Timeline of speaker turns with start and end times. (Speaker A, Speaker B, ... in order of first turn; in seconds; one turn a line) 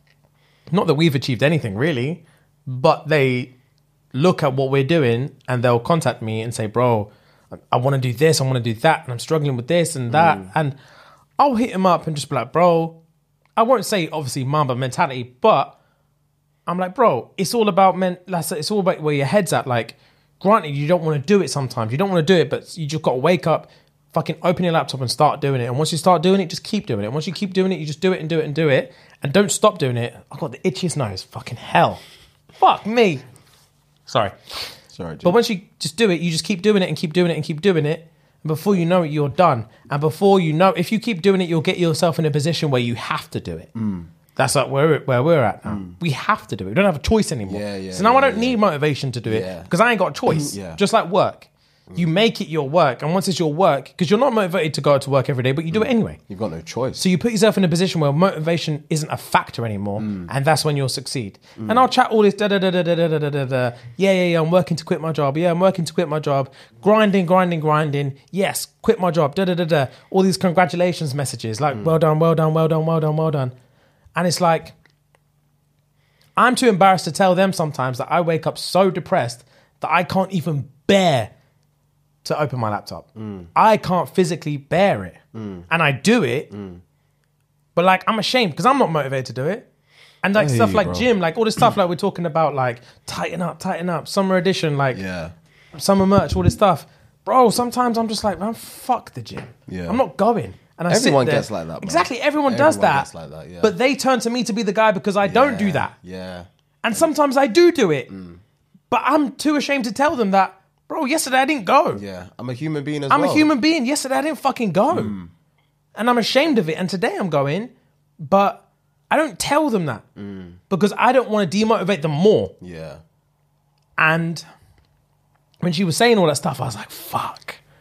Speaker A: 0.7-3.5
Speaker A: 4.1-7.1
Speaker A: 7.7-10.8
Speaker B: 10.1-10.5
Speaker A: 11.4-13.0
Speaker A: 13.6-15.8
Speaker A: 16.7-32.0
Speaker A: 32.6-33.2
Speaker A: 34.1-34.4
Speaker B: 34.9-35.4
Speaker A: 35.2-43.7
Speaker B: 43.8-44.1
Speaker A: 44.4-56.2
Speaker B: 45.7-46.0
Speaker B: 47.5-48.6
Speaker B: 49.3-49.7
Speaker B: 50.3-50.8
Speaker B: 55.7-57.0
Speaker A: 57.0-73.5
Speaker B: 60.0-60.3
Speaker B: 61.6-61.9
Speaker A: 74.2-74.8
Speaker A: 76.4-81.3
Speaker A: 82.2-86.5
Speaker B: 83.2-83.5
Speaker B: 85.3-85.7
Speaker B: 86.5-86.8
Speaker A: 87.8-89.7
Speaker A: 90.2-95.0
Speaker B: 90.4-91.1
Speaker B: 94.9-95.3
Speaker A: 95.8-103.1
Speaker B: 99.7-100.0
Speaker B: 100.9-103.7
Speaker A: 103.6-105.9
Speaker B: 105.2-106.5
Speaker A: 106.8-108.1
Speaker B: 108.1-108.4
Speaker A: 108.9-112.0
Speaker B: 111.9-113.5
Speaker A: 113.1-115.2
Speaker B: 114.9-115.3
Speaker A: 116.0-120.0
Speaker B: 120.2-120.6
Speaker A: 120.7-122.5
Speaker B: 122.6-123.0
Speaker A: 124.0-124.5
Speaker A: 125.6-127.6